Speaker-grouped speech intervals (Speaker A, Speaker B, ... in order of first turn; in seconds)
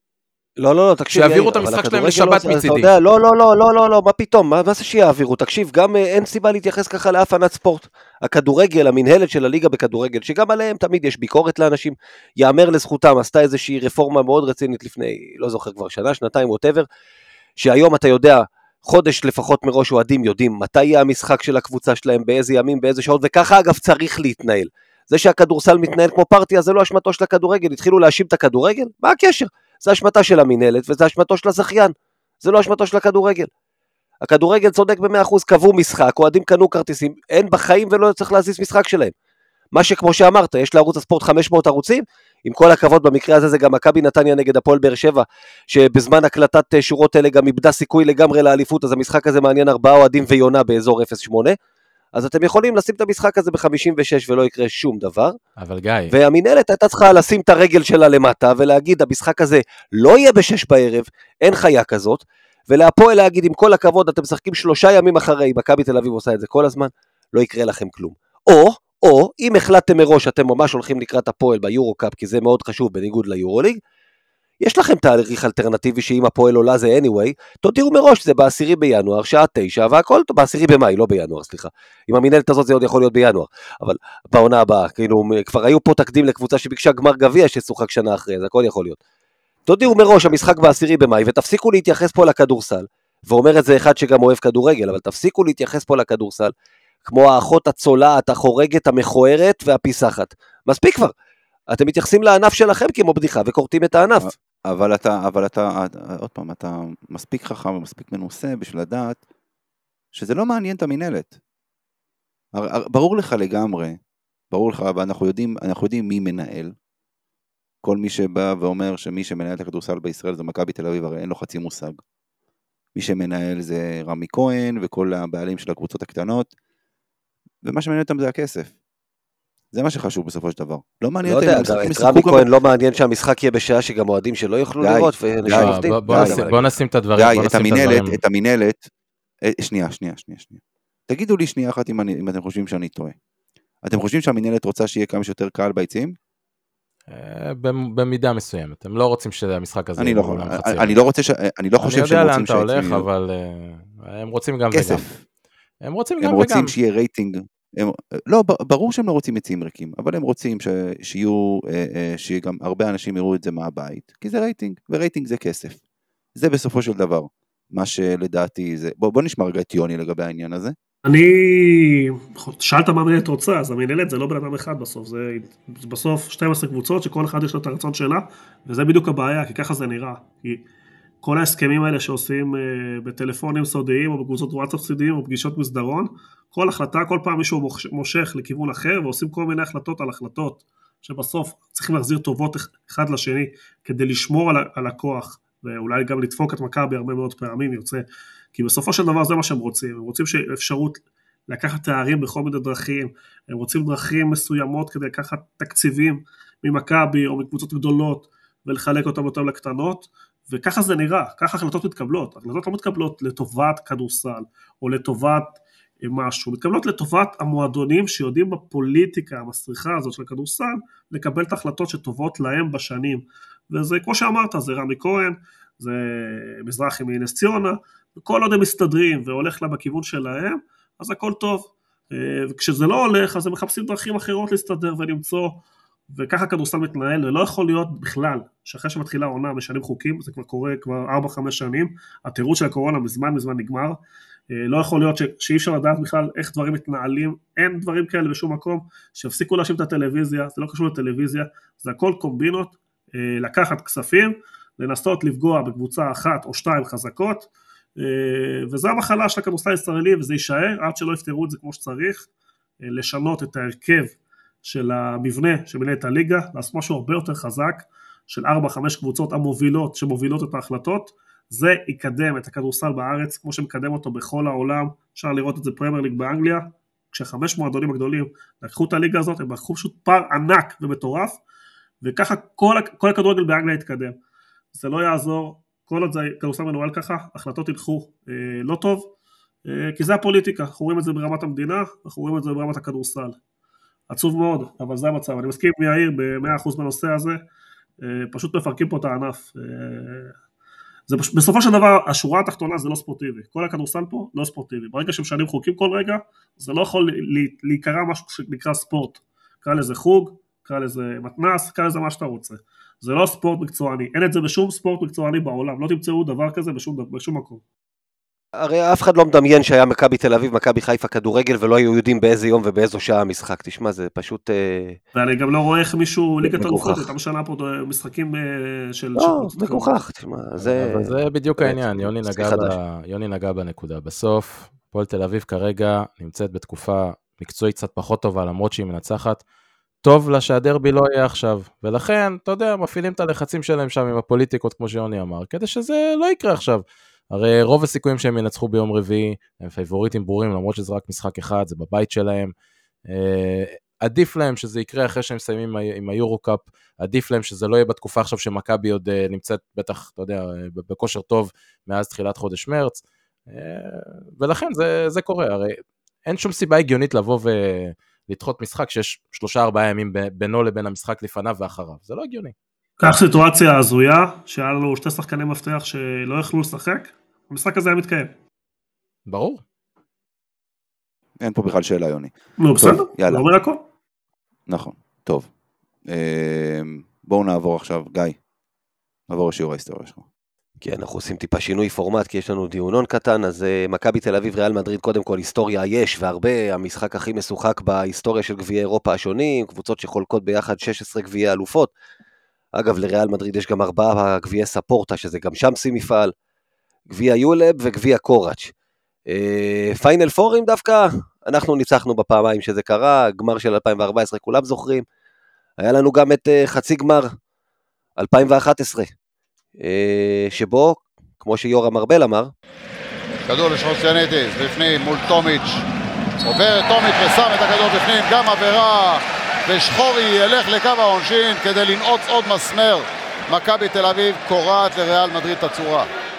Speaker A: 0.6-16.9, 17.6-33.5, 34.2-39.1, 39.7-51.5, 52.1-55.4, 56.1-73.8, 74.6-89.0, 89.7-96.5, 97.0-101.1, 101.7-104.3, 131.2-136.7, 318.5-325.0, 326.4-327.1, 329.2-332.8, 390.8-401.9, 402.8-406.3, 407.1-408.7, 409.3-415.0, 415.8-417.3, 418.2-419.1, 419.8-422.5
Speaker B: 1.1-2.9, 55.6-56.1, 135.5-138.2, 147.1-151.0, 151.8-155.0, 155.8-156.7, 330.6-339.4, 340.0-352.5, 353.1-372.5, 379.3-379.6
Speaker C: 104.2-109.2, 110.1-111.3, 112.5-114.0, 114.5-116.7, 117.8-122.0, 122.9-126.5, 127.6-128.7, 129.7-132.4, 134.8-136.5, 137.2-138.9, 139.5-143.1, 143.8-146.1, 150.0-153.1, 154.7-155.2, 156.2-165.8, 166.3-170.7, 381.4-383.5, 384.7-385.5, 386.1-388.4, 389.3-390.2
Speaker D: 171.0-180.6, 181.2-198.0, 198.5-235.6, 236.1-244.0, 244.5-262.3, 262.9-281.4, 282.0-284.2, 284.7-289.1, 289.6-293.4, 294.1-297.4, 298.0-300.3, 301.1-317.6, 325.1-329.9, 373.0-378.3, 382.6-383.8
Speaker E: 423.5-425.8, 426.4-436.1